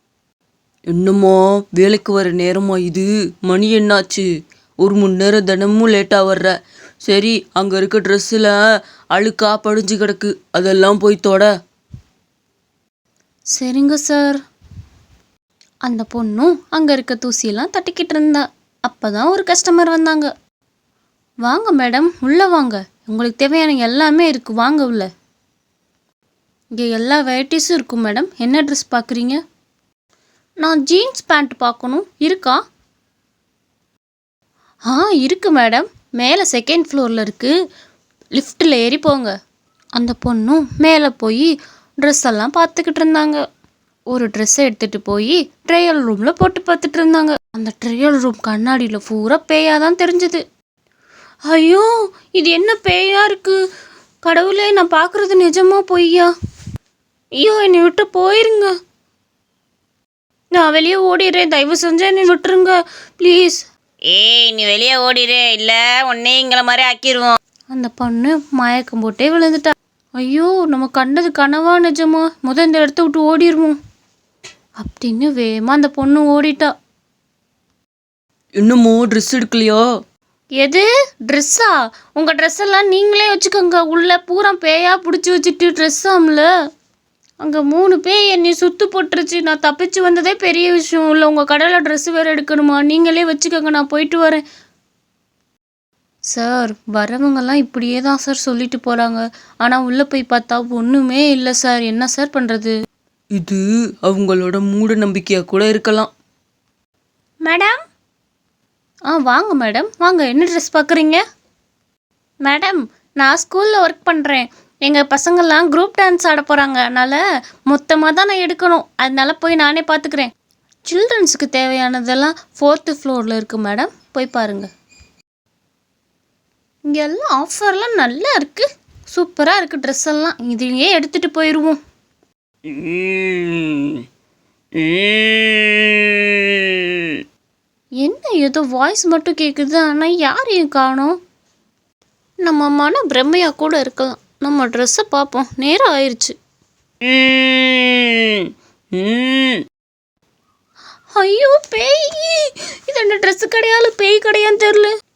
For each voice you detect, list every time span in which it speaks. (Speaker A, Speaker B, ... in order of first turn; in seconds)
Speaker A: 0.9-4.2, 4.8-6.5, 7.0-8.5, 9.1-11.5, 78.6-79.8, 103.4-106.1
Speaker B: 13.5-14.4, 15.8-20.3, 21.4-25.1, 26.8-29.4, 30.6-32.6, 34.9-37.5, 38.4-39.3, 40.0-43.4, 44.1-50.4, 51.5-53.6, 54.2-56.3, 57.4-58.7, 60.5-63.6, 67.7-73.8, 74.8-76.7, 80.6-86.5, 87.4-94.4, 96.3-102.7, 107.5-107.8, 109.1-111.2, 112.4-120.3, 120.8-124.7, 126.9-131.8, 138.0-141.2, 142.4-146.3, 151.1-154.9
Speaker C: 64.1-67.3, 132.7-134.0, 134.8-136.7, 147.1-148.4, 149.0-149.6